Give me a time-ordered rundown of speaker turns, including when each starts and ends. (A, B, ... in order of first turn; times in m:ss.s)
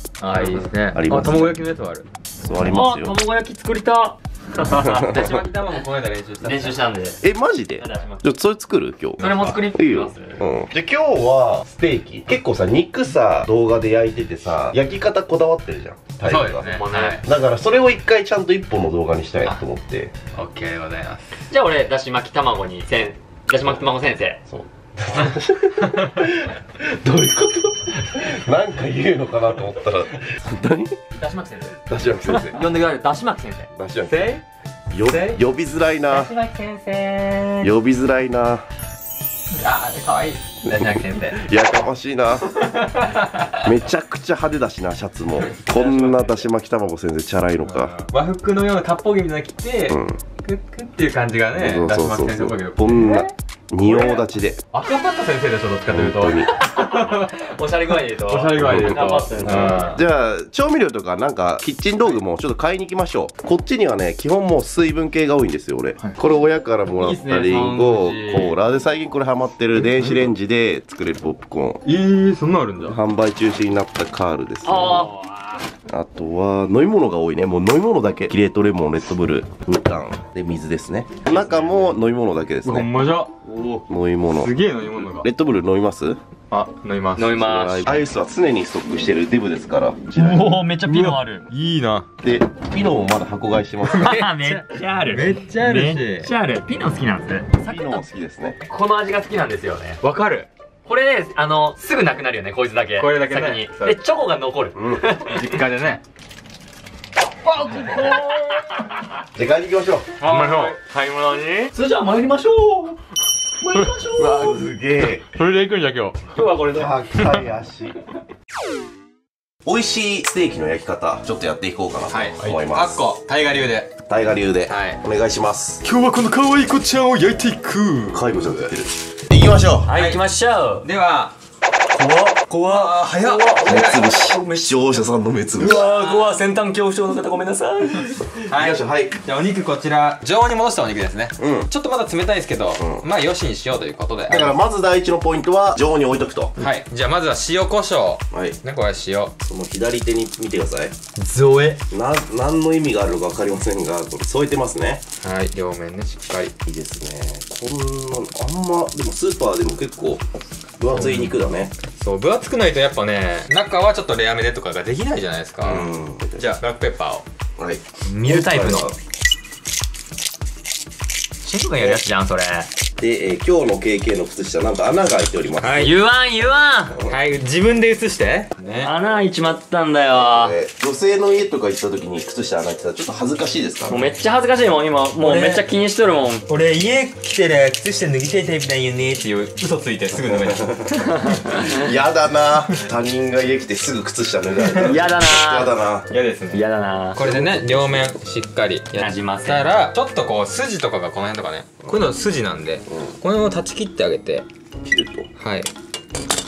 0:00.2-0:02.1 A
0:00.3-0:00.7 B
0:00.9-0:01.6 C
0:02.4-0:03.2 C
0:02.6-0:05.8 B
0:04.7-0:05.2 C
0:04.8-0:06.8 A
0:06.4-0:07.2 B
0:07.2-0:20.1 C
0:07.8-0:08.2 B
0:09.2-0:09.6 A
0:09.2-0:10.4 B
0:16.2-0:17.2 A
0:16.7-0:17.3 B
0:20.3-0:21.3 A
0:21.5-0:24.4 B
0:24.5-0:31.0 C
0:31.2-0:31.7 A
0:31.4-0:31.7 B
0:31.9-0:32.6 C
0:32.3-0:33.7 B
0:33.7-0:34.3 C
0:34.1-0:34.4 A
0:34.9-0:36.3 C
0:35.0-0:35.4 A
0:36.1-0:37.6 A
0:37.6-0:38.6 C
0:39.5-0:41.4 A
0:41.3-0:42.6 C
0:42.5-0:43.6 A
0:43.5-0:48.0 C
0:45.4-0:46.4 A
0:47.6-0:57.4 A
0:49.9-0:50.2 C
0:51.5-0:54.6 C
0:55.9-0:56.6 C
0:56.4-1:00.0 B
0:58.0-1:00.0 A
0:58.6-1:11.8 C
1:07.0-1:08.6 B
1:09.8-1:10.3 A
1:11.8-1:13.0 A
1:12.8-1:15.1 C
1:14.6-1:15.7 B
1:15.9-1:22.9 C
1:21.2-1:22.0 A
1:22.6-1:23.8 A
1:23.9-1:26.2 C
1:24.3-1:25.3 A
1:26.5-1:27.5 A
1:27.2-1:28.1 B
1:27.4-1:30.6 C
1:30.2-1:31.5 B
1:30.9-1:32.1 A
1:32.2-1:34.2 C
1:33.9-1:38.0 B
1:34.0-1:36.3 A
1:37.6-1:38.6 C
1:38.7-1:40.0 B
1:40.0-1:40.5 A
1:40.9-1:45.5 B
1:43.0-1:44.0 A
1:44.8-1:45.1 C
1:45.2-1:46.0 A
1:47.4-1:49.0 B
1:47.7-1:48.2 A
1:49.3-1:50.1 C
1:50.2-1:50.8 A
1:50.2-1:53.0 B
1:53.6-1:54.6 B
1:53.7-1:54.5 A
1:54.2-1:55.3 C
1:55.2-1:56.3 A
1:56.3-1:57.0 B
1:56.7-1:58.0 C
1:59.6-2:03.0 C
2:02.1-2:04.0 A
2:04.1-2:05.8 C
2:04.7-2:05.0 A
2:05.8-2:08.3 A
2:08.1-2:09.9 C
2:09.9-2:10.9 B
2:09.9-2:10.2 A
2:10.8-2:11.3 A
2:11.9-2:14.6 B
2:12.6-2:14.2 A
2:13.6-2:15.8 C
2:15.6-2:18.4 B
2:18.5-2:24.6 A
2:18.5-2:19.2 C
2:21.4-2:21.7 C
2:22.8-2:23.0 C
2:24.3-2:26.6 C
2:26.6-2:29.4 A
2:28.3-2:28.6 C
2:29.4-2:31.0 C
2:31.2-2:31.8 A
2:31.9-2:35.0 C
2:35.2-2:36.5 A
2:36.6-2:40.2 C
2:40.8-2:41.7 C
2:40.9-2:41.4 A
2:42.0-2:47.2 A
2:45.6-2:46.4 C
2:47.6-2:49.0 C
2:48.1-2:48.9 B
2:51.4-2:52.7 B
2:53.0-2:55.9 C
2:55.6-2:55.9 A
2:55.8-2:57.0 B
2:57.0-2:58.9 A
2:58.8-3:00.6 B
3:00.1-3:04.1 C
3:03.9-3:06.5 B
3:05.2-3:05.6 A
3:06.5-3:11.3 A
3:10.2-3:16.1 C
3:14.8-3:15.7 B
3:16.1-3:24.5 A
3:16.5-3:17.2 B
3:17.2-3:18.1 C
3:19.0-3:19.6 B
3:24.8-3:25.3 C
3:25.4-3:25.7 A